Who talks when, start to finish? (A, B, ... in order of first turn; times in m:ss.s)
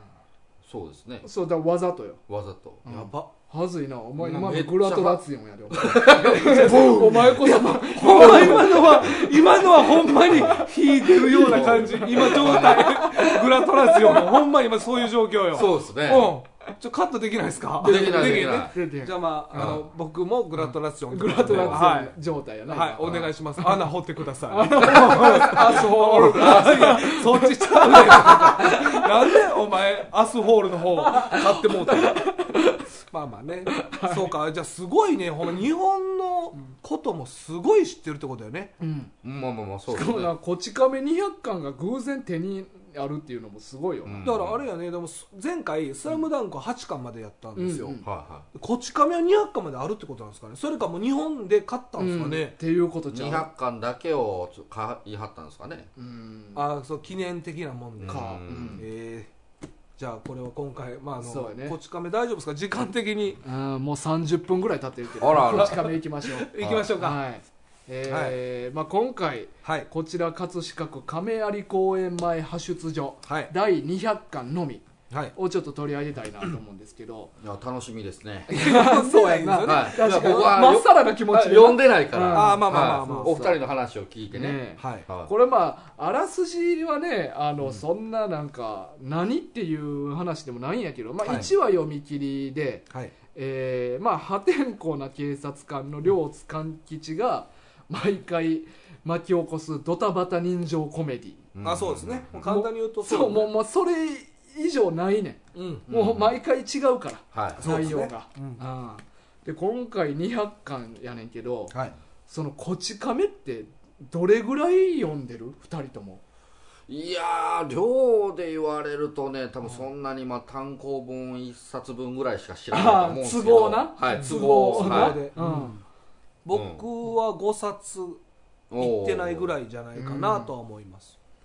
0:00.6-0:01.3 A
0:01.2-0:02.2 B
0:02.3-0:02.9 A
0:02.8-0:14.5 B
0:02.9-0:03.3 C
0:04.2-0:06.8 A
0:06.0-0:22.2 C
0:08.2-0:08.8 A
0:10.3-0:10.7 A
0:11.4-0:13.0 A
0:15.5-0:16.4 A
0:17.8-0:19.8 B
0:17.8-0:18.7 A
0:19.6-0:19.9 A
0:21.1-0:23.8 B
0:21.4-0:21.9 A
0:22.7-0:32.4 C
0:23.0-0:23.3 A
0:24.5-0:29.5 B
0:26.3-0:26.7 A
0:31.0-0:32.9 B
0:33.1-0:38.7 C
0:33.7-0:34.4 B
0:38.8-0:39.1 B
0:39.2-0:40.3 A
0:39.9-0:44.3 B
0:44.0-0:44.6 A
0:44.2-0:48.0 C
0:47.6-0:48.0 B
0:48.0-0:48.5 A
0:48.5-0:52.6 C
0:52.0-0:53.5 B
0:53.1-0:55.9 A
0:56.0-0:56.6 B
0:56.6-0:59.3 C
0:58.0-0:58.8 A
0:58.1-0:58.8 B
1:00.0-1:03.4 C
1:01.2-1:01.8 B
1:03.4-1:17.3 B
1:05.2-1:06.0 A
1:05.4-1:07.2 C
1:06.6-1:06.9 A
1:08.1-1:08.4 C
1:09.6-1:09.9 C
1:13.3-1:13.5 C
1:15.1-1:15.4 C
1:17.4-1:18.5 A
1:18.5-1:23.6 B
1:18.5-1:20.6 C
1:19.6-1:25.3 A
1:22.3-1:23.4 C
1:24.3-1:41.4 B
1:24.8-1:25.1 C
1:31.2-1:31.5 C
1:41.5-1:42.5 A
1:41.6-1:43.5 C
1:42.5-1:51.8 B
1:45.5-1:45.9 C
1:45.9-1:46.4 A
1:47.3-1:47.9 A
1:47.6-1:48.6 C
1:51.7-1:52.0 C
1:52.3-1:56.2 B
1:56.9-2:05.2 A
2:02.7-2:05.8 B
2:04.2-2:05.8 C
2:06.4-2:08.2 C
2:06.5-2:06.8 A
2:08.7-2:09.5 A
2:08.8-2:11.2 C
2:10.0-2:10.5 B